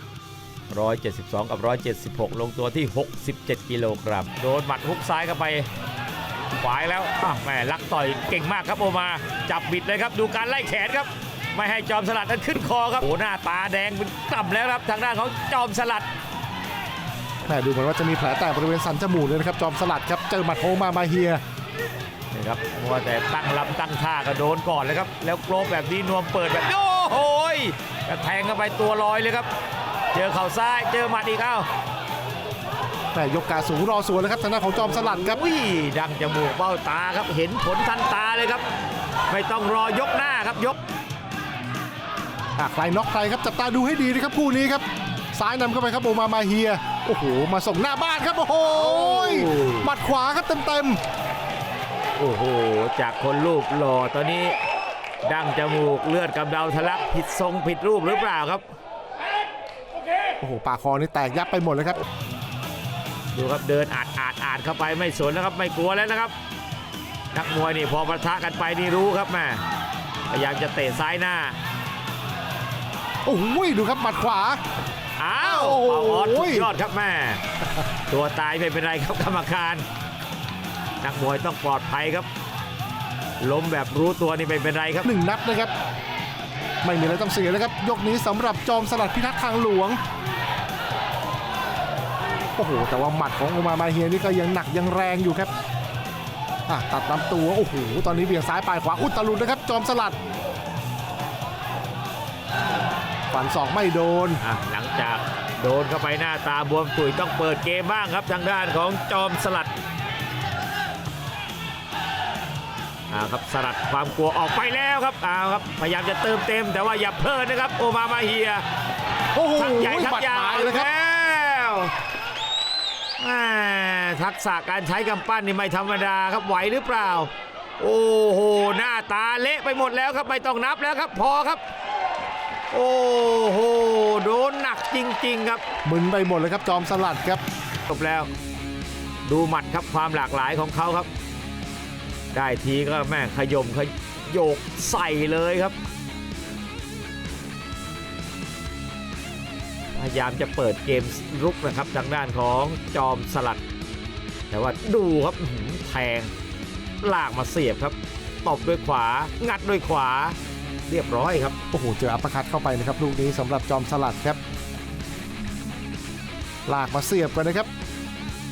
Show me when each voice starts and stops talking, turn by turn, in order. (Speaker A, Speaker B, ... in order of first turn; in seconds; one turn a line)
Speaker A: 0.7-5.7
Speaker A: 6.5-16.1
Speaker B: 17.5-21.4
Speaker A: 22.3-29.5
Speaker A: 30.1-31.7
Speaker B: 33.1-35.4
Speaker A: 35.0-38.6
Speaker A: 39.3-40.8
Speaker B: 42.6-51.0
Speaker A: 48.8-49.9
Speaker A: 52.2-54.5
Speaker A: 55.2-58.6
Speaker B: 60.4-62.0
Speaker A: 63.3-66.3
Speaker A: 67.3-69.6
Speaker A: 70.3-71.6
Speaker B: 73.3-74.6
Speaker A: 75.2-77.4
Speaker B: 75.4-76.7
Speaker A: 78.1-79.8
Speaker A: 81.0-82.3
Speaker A: 83.4-85.1
Speaker B: 85.0-85.7
Speaker B: 86.8-90.0
Speaker B: 92.6-95.5
Speaker B: 96.7-100.2
Speaker B: 103.3-104.4
Speaker A: 104.4-109.7
Speaker A: 113.1-118.6
Speaker B: 119.3-120.9
Speaker A: 119.5-121.9
Speaker A: 123.2-131.6
Speaker A: 132.7-135.6
Speaker B: 135.8-137.4
Speaker A: 137.9-138.3
Speaker A: 139.2-141.1
Speaker A: 142.3-145.8
Speaker A: 149.9-153.6
Speaker A: 154.5-156.3
Speaker A: 157.0-160.4
Speaker A: 160.9-161.6
Speaker B: 161.7-164.4
Speaker B: 166.7-167.7